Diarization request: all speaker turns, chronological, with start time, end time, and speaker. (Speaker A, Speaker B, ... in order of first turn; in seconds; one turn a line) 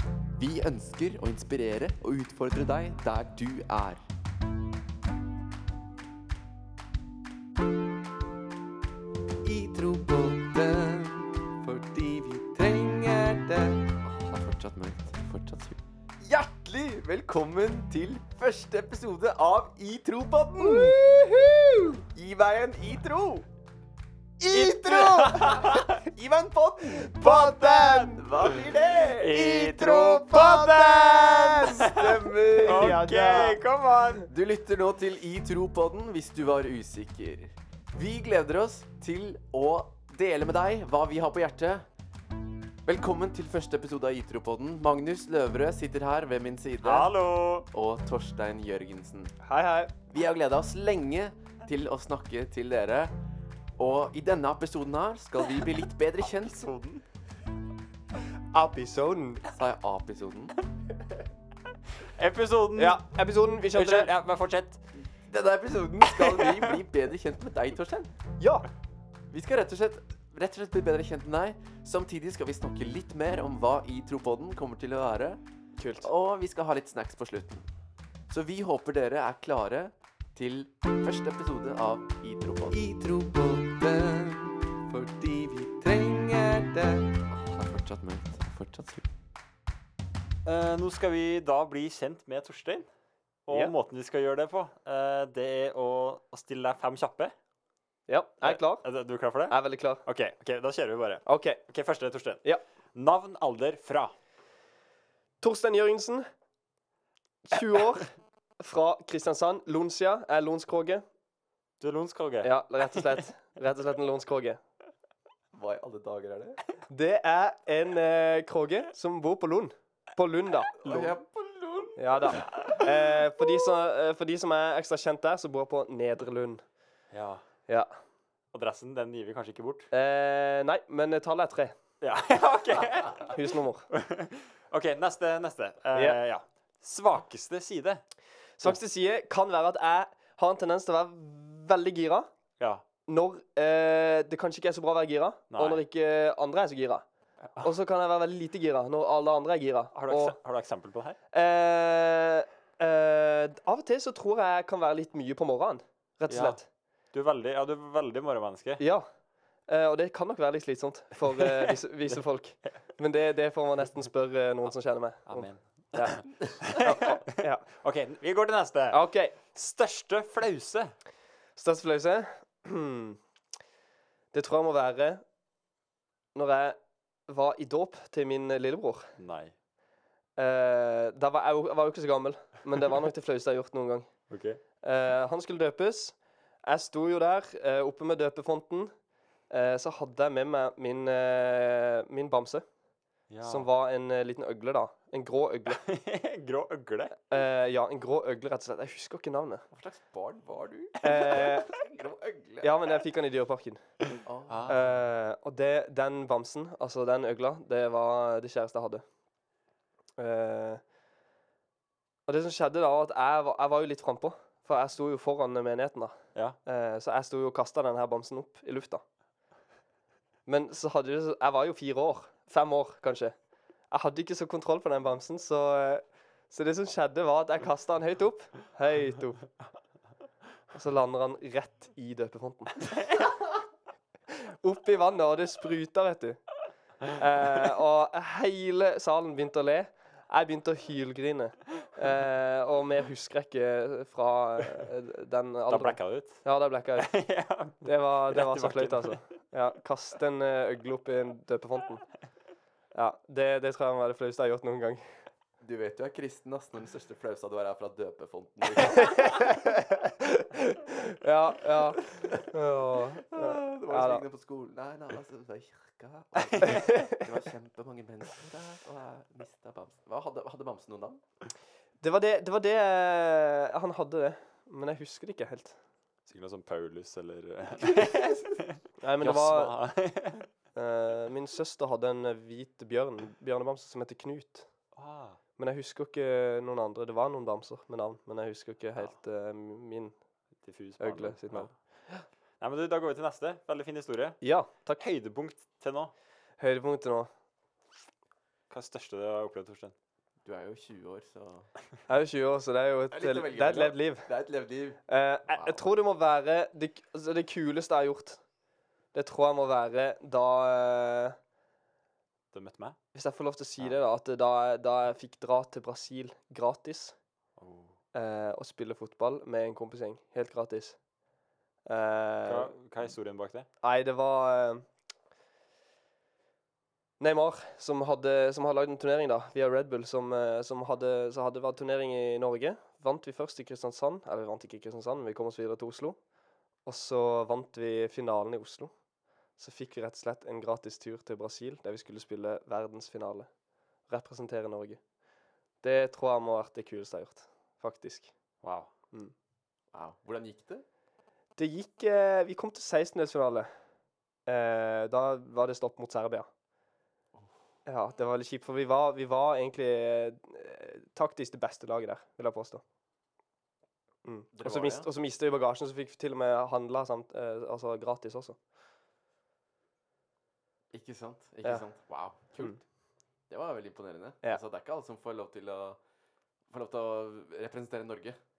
Speaker A: 0.4-4.0
Speaker A: 9.4-21.4
Speaker B: 20.6-21.9
Speaker A: 22.1-23.4
Speaker A: 24.4-33.5
Speaker C: 24.5-25.9
Speaker C: 27.2-28.1
Speaker B: 27.2-28.2
Speaker C: 29.2-34.3
Speaker B: 32.6-33.6
Speaker A: 34.3-41.8
Speaker A: 42.9-47.1
Speaker C: 46.8-47.7
Speaker A: 47.7-49.3
Speaker B: 49.4-49.9
Speaker A: 50.1-53.1
Speaker A: 53.8-56.6
Speaker C: 56.2-57.0
Speaker B: 58.5-59.4
Speaker A: 59.5-60.6
Speaker C: 62.0-63.0
Speaker B: 62.8-64.1
Speaker C: 63.7-64.8
Speaker A: 65.3-68.1
Speaker C: 66.1-66.8
Speaker B: 68.4-68.7
Speaker A: 69.3-75.4
Speaker B: 75.8-76.1
Speaker A: 76.0-77.7
Speaker A: 78.3-89.1
Speaker C: 90.5-92.9
Speaker C: 93.5-97.3
Speaker B: 98.1-98.9
Speaker C: 98.4-102.4
Speaker B: 99.5-100.0
Speaker B: 101.2-101.6
Speaker C: 102.9-104.2
Speaker B: 105.4-106.2
Speaker B: 107.5-111.0
Speaker C: 111.8-113.2
Speaker B: 112.4-114.6
Speaker A: 115.5-116.6
Speaker B: 116.9-121.1
Speaker A: 120.8-122.8
Speaker C: 120.8-121.1
Speaker B: 122.0-126.6
Speaker C: 127.1-127.4
Speaker C: 128.5-129.9
Speaker B: 129.9-131.8
Speaker C: 132.0-138.0
Speaker B: 133.3-133.9
Speaker B: 138.6-142.3
Speaker B: 143.1-147.1
Speaker C: 145.5-145.8
Speaker C: 147.4-147.7
Speaker B: 147.6-150.4
Speaker C: 149.9-151.2
Speaker B: 151.3-156.7
Speaker C: 156.3-158.8
Speaker B: 158.8-159.1
Speaker B: 159.7-167.7
Speaker C: 161.3-162.7
Speaker C: 165.3-170.9
Speaker B: 168.9-169.4
Speaker B: 171.6-173.2
Speaker B: 174.3-175.2
Speaker B: 176.3-179.1
Speaker C: 179.2-179.5
Speaker B: 180.4-184.1
Speaker C: 184.3-184.6
Speaker B: 184.8-188.9
Speaker B: 189.5-192.7
Speaker C: 193.3-193.7
Speaker B: 193.4-195.8
Speaker C: 195.7-197.2
Speaker B: 197.3-199.7
Speaker A: 199.7-202.8
Speaker B: 201.0-201.7
Speaker B: 202.6-203.8
Speaker A: 204.3-204.9
Speaker B: 204.7-209.1
Speaker B: 210.2-210.8
Speaker B: 212.3-219.0
Speaker B: 220.5-223.4
Speaker B: 223.9-229.5
Speaker B: 230.7-233.3
Speaker B: 234.3-236.4
Speaker B: 237.0-247.2
Speaker C: 245.7-249.2
Speaker B: 247.8-252.1
Speaker B: 252.9-255.0
Speaker A: 255.6-259.4
Speaker B: 258.8-264.2
Speaker A: 263.3-271.2
Speaker B: 266.6-267.2
Speaker B: 272.0-275.8
Speaker C: 276.3-280.5
Speaker A: 277.9-278.5
Speaker B: 279.0-279.7
Speaker B: 280.7-284.7
Speaker C: 285.0-285.4
Speaker B: 285.6-290.1
Speaker C: 290.6-291.8
Speaker B: 291.0-292.2
Speaker C: 292.6-296.1
Speaker B: 294.4-295.0
Speaker B: 296.6-297.3
Speaker C: 298.7-299.9
Speaker A: 300.4-301.7
Speaker B: 302.1-304.3
Speaker A: 303.1-305.9
Speaker B: 305.1-308.4
Speaker B: 309.1-311.4
Speaker C: 312.5-313.0
Speaker B: 313.1-317.2
Speaker C: 317.6-317.9
Speaker B: 318.1-321.0
Speaker B: 321.9-322.7
Speaker C: 322.4-323.7
Speaker B: 323.8-324.9
Speaker B: 327.2-336.2
Speaker B: 336.9-338.9
Speaker B: 339.6-343.5
Speaker B: 344.1-345.0
Speaker B: 345.8-348.3
Speaker C: 348.6-348.9
Speaker A: 349.9-350.8
Speaker B: 351.6-353.7
Speaker B: 354.5-356.5
Speaker B: 357.9-362.8
Speaker B: 364.2-368.6
Speaker A: 364.5-365.1
Speaker A: 370.9-372.8
Speaker A: 373.5-376.0
Speaker A: 376.7-378.4